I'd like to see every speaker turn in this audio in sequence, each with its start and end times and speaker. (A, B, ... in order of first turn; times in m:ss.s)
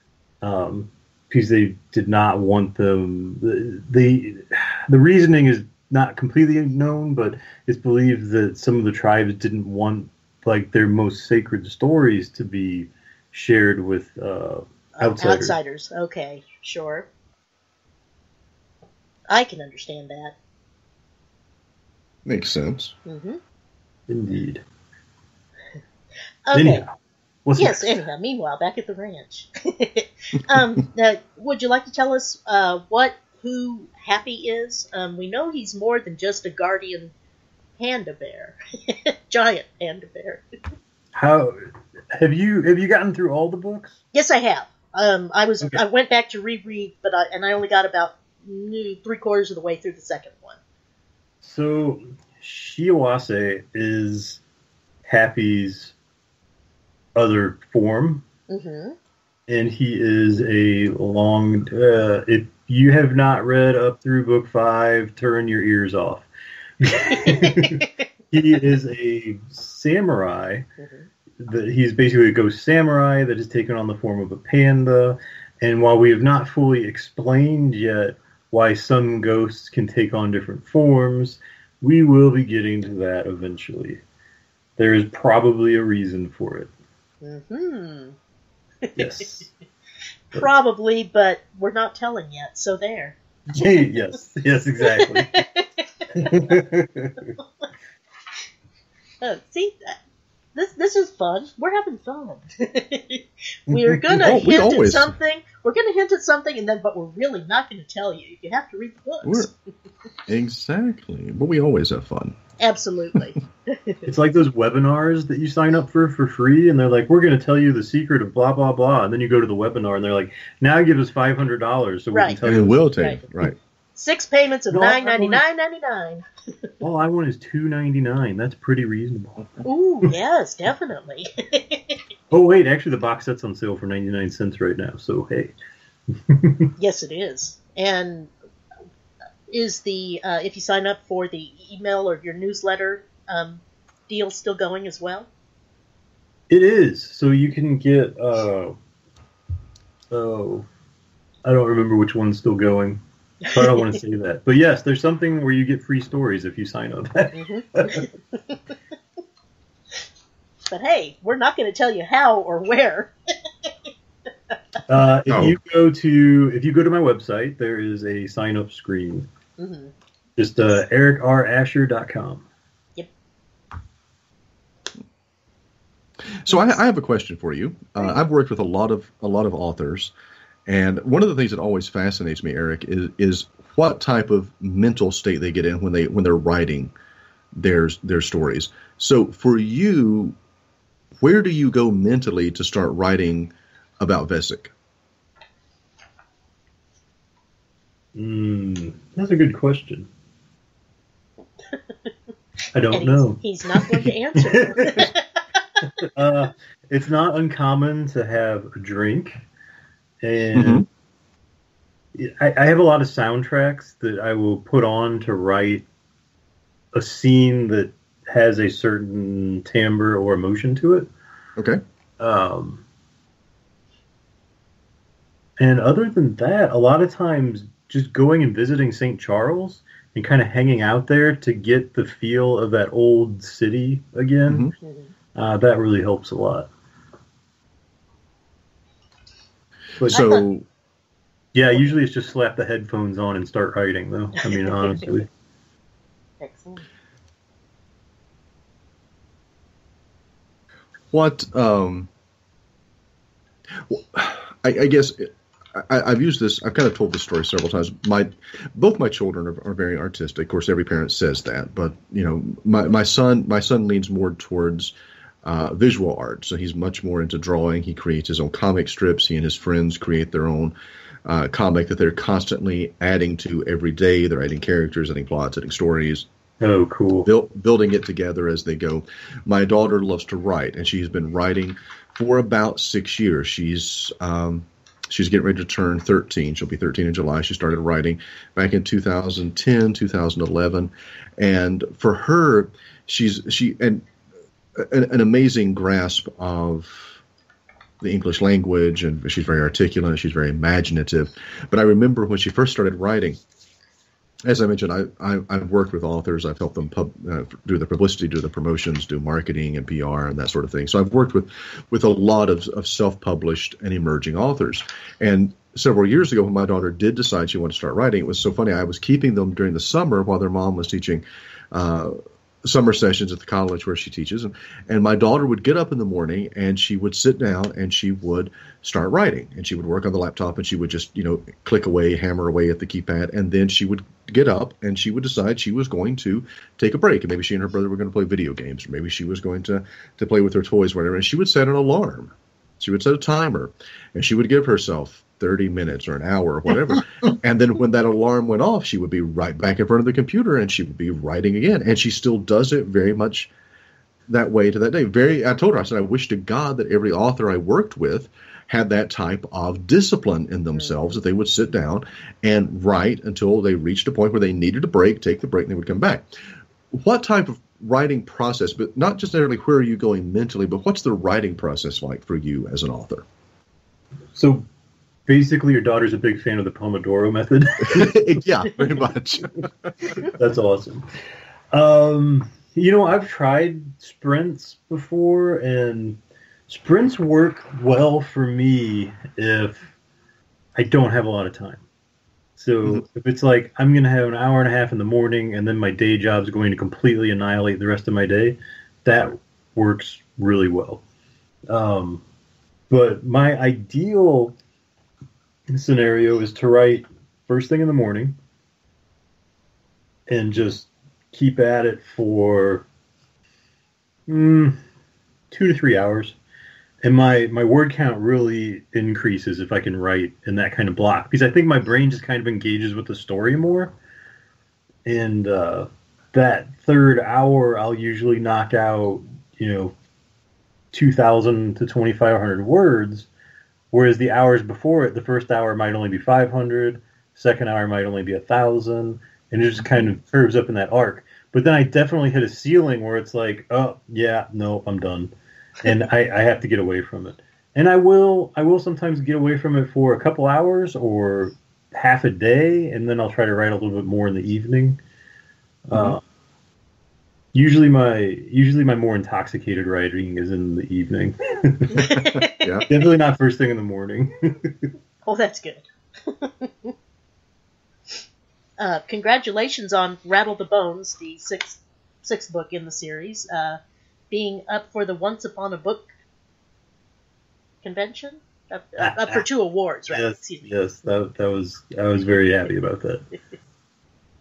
0:00.4-0:15.6 A
0:14.9-0:17.1 B
0:19.3-0:20.3 B
0:22.2-0:22.9 C
0:23.0-0:23.4 B
0:24.1-0:24.6 A
0:26.4-0:26.8 B
0:26.5-0:26.9 A
0:27.4-0:28.0 A
0:27.6-0:37.1 B
0:37.8-0:40.4 B
0:41.1-0:41.6 A
0:42.1-0:44.0 A
0:44.1-0:50.6 B
0:51.4-0:54.4 A
0:55.0-0:55.9 A
0:57.1-0:58.2 A
0:58.5-0:59.0 B
0:59.5-1:06.3 A
1:06.8-1:10.6 A
1:07.1-1:07.9 B
1:10.8-1:11.1 B
1:11.4-1:24.0 A
1:24.8-1:26.7 A
1:27.2-1:28.2 B
1:28.8-1:29.3 B
1:29.0-1:29.5 A
1:30.3-1:33.7 B
1:33.5-1:35.4 A
1:34.8-1:36.5 B
1:36.1-1:37.3 A
1:39.2-1:40.0 B
1:40.5-1:49.5 B
1:43.7-1:44.2 A
1:44.2-1:45.2 C
1:49.2-1:49.5 C
1:50.3-1:52.4 C
1:52.6-1:54.1 B
1:54.0-2:03.1 A
2:02.1-2:02.4 B
2:02.4-2:03.6 C
2:02.9-2:03.2 B
2:04.0-2:06.2 B
2:04.7-2:05.4 A
2:06.8-2:09.5 A
2:09.6-2:12.0 B
2:12.3-2:15.5 A
2:16.1-2:16.7 A
2:16.8-2:18.3 B
2:19.5-2:25.3 B
2:26.5-2:28.8 A
2:30.1-2:30.6 A
2:31.4-2:38.1 A
2:37.3-2:38.7 B
2:40.7-2:43.1 B
2:44.9-2:49.3 A
2:45.3-2:45.6 C
2:49.6-2:49.9 B
2:50.4-2:52.4 A
2:56.4-3:00.1 C
3:00.7-3:06.9 C
3:07.5-3:10.4 C
3:11.2-3:14.7 C
3:18.2-3:20.1 A
3:22.7-3:25.1 A
3:22.9-3:25.2 B
3:25.8-3:29.4 A
3:30.2-3:30.8 A
3:30.5-3:30.8 C
3:32.1-3:35.8 A
3:36.9-3:41.1 A
3:42.2-3:42.8 A
3:45.6-3:54.7 A
3:54.5-3:54.7 C
3:54.8-3:55.1 B
3:55.3-3:56.7 A
4:00.0-4:00.6 C
4:00.0-4:00.4 A
4:00.1-4:00.4 B
4:01.5-4:05.3 A
4:04.5-4:05.0 B
4:06.4-4:06.8 B
4:11.1-4:12.1 C
4:13.9-4:36.2 C
4:36.6-4:37.3 A
4:37.2-4:54.1 C
4:54.8-4:57.2 C
4:58.0-5:03.4 C
5:04.4-5:53.5 C
5:54.3-6:06.2 C
6:06.9-6:13.2 C
6:14.3-6:14.6 A
6:15.2-6:18.2 A
6:17.8-6:20.3 C
6:20.2-6:21.0 A
6:21.7-6:29.9 A
6:30.8-6:31.8 A
6:32.6-6:41.0 A
6:41.7-6:42.2 A
6:42.9-6:44.5 A
6:45.7-6:48.4 A
6:50.3-6:52.9 A
6:54.3-6:54.8 A
6:55.5-6:56.4 A
6:57.0-7:04.0 A
7:05.0-7:09.9 A
7:10.9-7:13.3 A
7:13.9-7:35.0 A
7:35.9-7:36.2 A
7:35.9-7:36.2 C
7:37.5-7:42.1 A
7:41.9-7:42.9 B
7:42.0-7:42.9 C
7:42.9-7:44.9 A
7:45.2-7:46.9 B
7:48.8-7:53.8 B
7:54.3-7:56.1 B
7:57.8-8:00.7 B
7:59.0-7:59.4 A
8:00.1-8:03.2 A